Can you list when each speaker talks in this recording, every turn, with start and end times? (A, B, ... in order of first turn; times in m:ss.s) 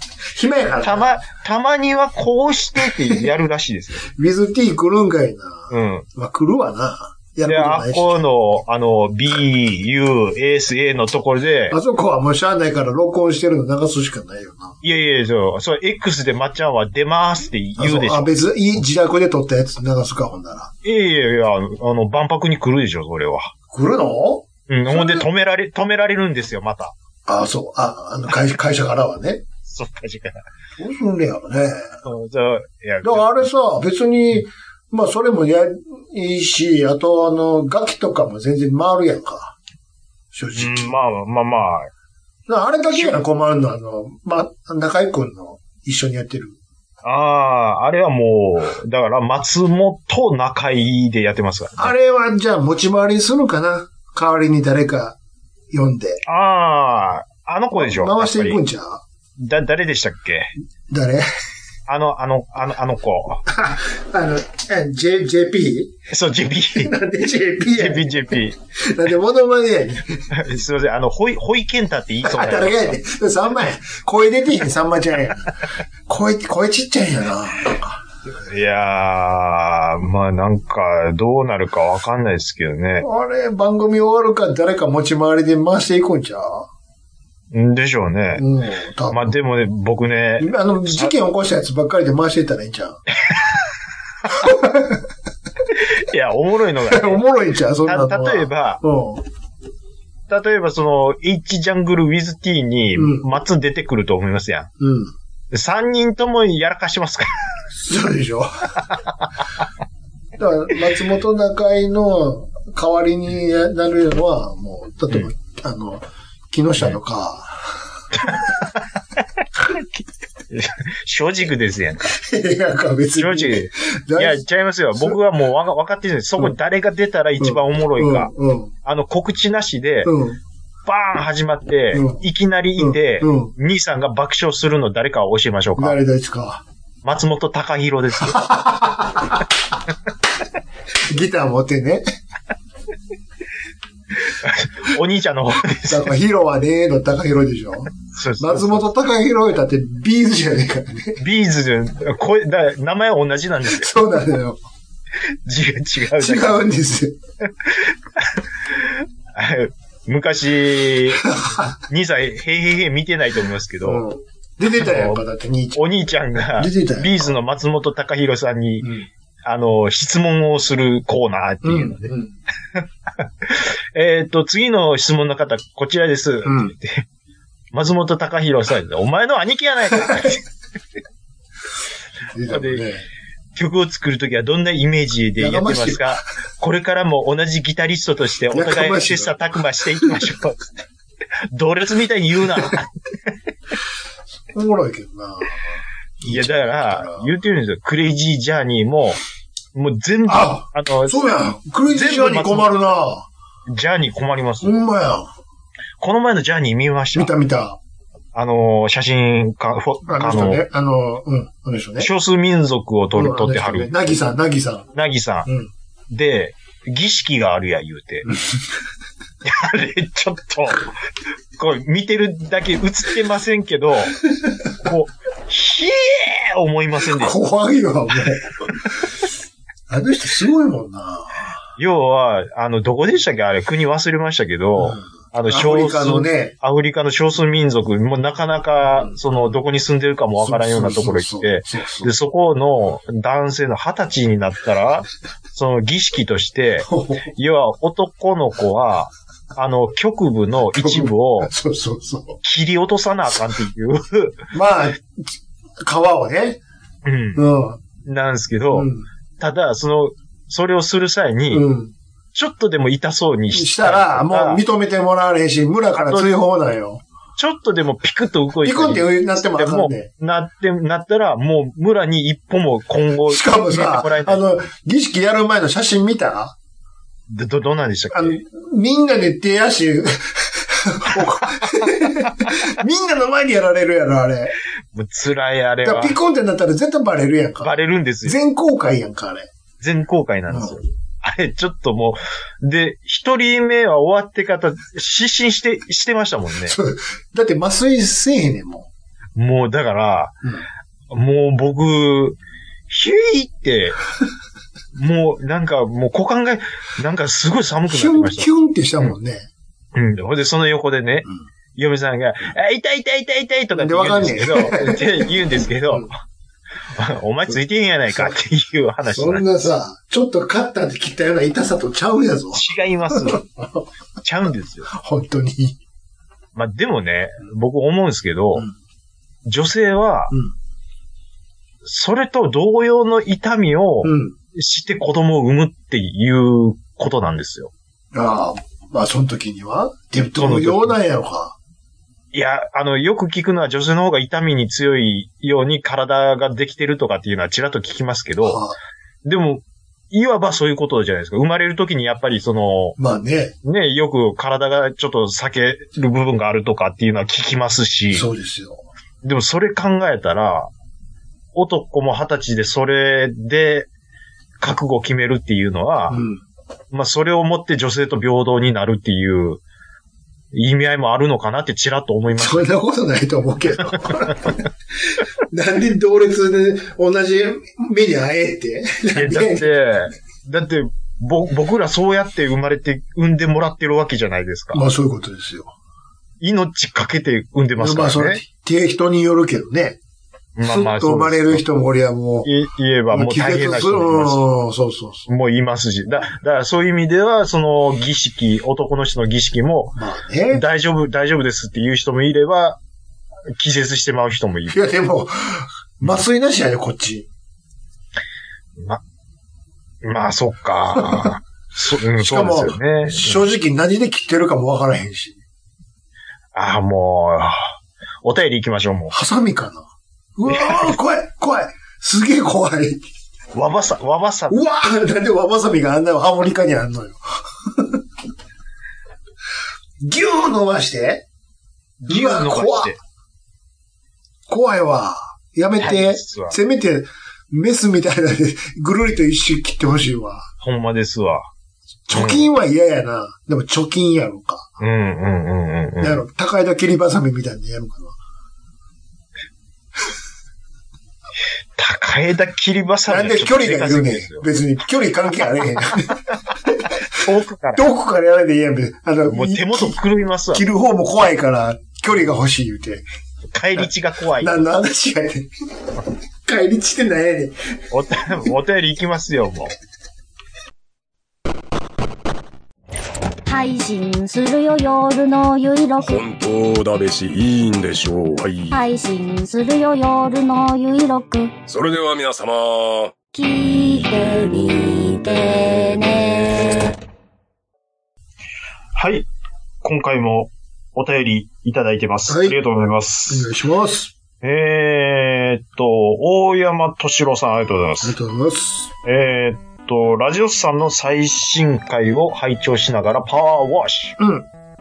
0:00.3-0:01.2 A
0:00.8-0:04.0 B
0:04.0-0:08.2 A
0:05.7-0:06.0 B
0:07.4-0:11.8 B
0:11.7-0:14.8 A
0:14.8-0:18.3 B
0:17.8-0:20.7 A
0:20.8-0:23.5 B
0:23.7-0:25.3 A
0:24.7-0:26.9 B
0:27.2-0:29.4 A
0:29.6-0:30.4 B
0:30.8-0:32.0 A
0:32.0-0:33.5 B
0:33.0-0:39.6 A
0:40.3-0:40.9 A
0:40.5-0:41.9 B
0:42.5-0:46.6 A
0:42.9-0:43.2 B
0:47.0-0:51.9 B
0:51.8-0:55.2 A
0:55.7-0:56.2 A
0:56.2-0:58.6 B
0:57.7-0:59.0 A
0:59.4-1:00.5 B
1:00.9-1:01.3 A
1:01.9-1:03.4 B
1:03.5-1:06.0 A
1:06.1-1:06.9 B
1:06.7-1:10.3 A
1:07.7-1:08.6 B
1:10.3-1:13.0 B
1:12.2-1:15.6 A
1:16.1-1:18.0 A
1:18.3-1:23.1 B
1:23.0-1:26.7 A
1:27.5-1:28.4 B
1:28.4-1:29.3 A
1:29.1-1:31.1 B
1:30.4-1:33.0 A
1:34.3-1:35.0 A
1:36.0-1:37.2 B
1:36.8-1:39.2 A
1:37.8-1:38.8 B
1:40.3-1:44.7 B
1:43.0-1:43.2 A
1:44.8-1:45.1 A
1:45.5-1:47.3 B
1:47.8-1:48.5 A
1:50.4-1:57.8 A
1:58.2-1:58.5 B
2:00.5-2:02.1 B
2:02.1-2:04.4 A
2:03.2-2:08.3 B
2:07.4-2:08.7 A
2:08.8-2:10.1 B
2:10.0-2:10.4 A
2:10.8-2:16.0 B
2:11.9-2:12.2 A
2:12.8-2:13.5 A
2:15.8-2:16.6 A
2:17.0-2:18.5 B
2:18.2-2:19.4 A
2:21.1-2:22.0 A
2:24.3-2:26.1 B
2:25.8-2:31.2 A
2:28.1-2:28.9 B
2:31.2-2:33.9 B
2:33.6-2:34.6 A
2:35.4-2:36.7 B
2:36.2-2:37.2 A
2:37.6-2:44.0 B
2:41.3-2:41.7 A
2:43.8-2:45.8 A
2:44.7-2:45.2 B
2:45.8-2:48.9 B
2:46.6-2:47.3 A
2:48.8-2:49.1 A
2:49.4-2:52.1 B
2:51.6-2:52.3 A
2:52.8-2:57.0 B
2:56.4-2:56.7 A
2:57.7-3:00.4 B
3:02.3-3:03.0 A
3:02.5-3:02.9 B
3:03.6-3:10.7 B
3:05.4-3:06.2 A
3:08.5-3:09.4 A
3:10.0-3:10.3 A
3:11.5-3:13.3 B
3:14.5-3:15.6 A
3:16.2-3:17.3 A
3:16.2-3:19.2 B
3:19.7-3:21.2 B
3:20.3-3:23.3 A
3:21.9-3:22.9 B
3:23.7-3:24.8 B
3:24.6-3:25.3 A
3:26.0-3:27.3 B
3:27.1-3:27.8 A
3:28.3-3:30.6 B
3:30.1-3:32.1 A
3:32.0-3:34.1 B
3:33.1-3:34.9 A
3:34.9-3:35.5 B
3:35.4-3:35.7 A
3:36.1-3:38.3 B
3:38.3-3:38.5 A
3:39.4-3:40.9 B
3:41.6-3:44.2 B
3:44.8-3:47.4 B
3:47.0-3:49.0 A
3:49.9-3:51.6 A
3:51.8-4:11.5 B
3:54.8-3:56.5 A
3:58.9-3:59.2 A
4:00.4-4:02.1 A
4:06.8-4:07.3 A
4:10.7-4:12.4 A
4:12.4-4:14.4 B
4:14.5-4:16.6 A
4:17.0-4:17.4 B
4:17.3-4:17.8 A
4:18.0-4:21.6 B
4:18.7-4:19.0 A
4:21.5-4:21.9 A
4:22.3-4:24.6 B
4:23.5-4:27.0 A
4:25.9-4:26.3 B
4:27.4-4:34.4 B
4:28.6-4:30.1 A
4:33.3-4:36.6 A
4:37.3-4:38.4 B
4:38.1-4:44.5 A
4:44.9-4:46.2 B
4:45.8-4:49.5 A
4:47.6-4:48.4 B
4:49.8-4:56.8 B
4:50.5-4:50.8 A
4:56.6-4:58.9 A
4:59.4-5:00.3 B
5:01.1-5:02.4 B
5:02.9-5:04.0 B
5:05.0-5:08.5 B
5:07.9-5:09.5 A
5:09.9-5:16.1 B
5:13.7-5:15.3 A
5:17.0-5:19.5 B
5:19.0-5:23.8 A
5:22.5-5:23.4 B
5:24.2-5:24.9 B
5:24.9-5:25.8 A
5:26.6-5:28.6 B
5:29.4-5:30.3 B
5:31.8-5:37.7 B
5:34.0-5:34.4 A
5:38.1-5:41.6 A
5:40.4-5:41.0 B
5:42.3-5:48.6 B
5:48.4-5:48.8 A
5:49.2-5:53.0 B
5:53.0-5:53.5 A
5:53.6-5:58.2 B
5:58.1-5:58.8 A
5:59.2-6:00.7 B
6:01.5-6:03.9 B
6:04.6-6:06.2 B
6:06.1-6:06.4 A
6:06.9-6:09.6 B
6:10.5-6:12.7 B
6:12.3-6:14.6 A
6:15.5-6:19.8 A
6:19.1-6:24.8 B
6:24.7-6:25.7 A
6:26.4-6:28.4 B
6:27.8-6:30.0 A
6:30.6-6:31.6 B
6:30.6-6:32.5 A
6:32.4-6:34.4 B
6:33.1-6:35.3 A
6:35.3-6:40.0 B
6:40.0-6:40.6 A
6:40.5-6:42.8 B
6:43.5-6:44.8 B
6:44.7-6:47.3 A
6:50.0-6:53.4 B
6:51.0-6:51.3 A
6:52.2-6:55.4 A
6:56.5-6:59.1 B
6:59.1-7:03.0 A
7:00.5-7:00.9 B
7:03.5-7:04.6 B
7:04.5-7:08.0 A
7:10.0-7:11.2 A
7:12.0-7:13.0 B
7:12.1-7:13.0 A
7:14.5-7:20.5 A
7:15.8-7:16.6 B
7:20.6-7:21.5 B
7:22.1-7:24.8 A
7:22.1-7:22.5 B
7:24.8-7:26.2 B
7:26.0-7:28.2 A
7:31.8-7:34.4 B
7:33.1-7:36.9 A
7:37.1-7:37.9 B
7:37.7-7:40.0 A
7:39.3-7:40.6 B
7:40.5-7:43.0 A
7:43.5-7:44.6 B
7:43.7-7:45.5 A
7:46.4-7:47.6 A
7:47.9-7:49.7 B
7:53.5-7:56.2 C
7:56.0-7:58.8 D
7:58.7-8:01.6 C
8:01.7-8:03.2 D
8:03.3-8:06.9 C
8:08.9-8:09.3 B
8:09.8-8:13.5 B
8:12.3-8:12.6 A
8:13.3-8:14.1 A
8:14.4-8:18.2 B
8:18.0-8:18.9 A
8:19.0-8:24.2 B
8:24.2-8:24.5 A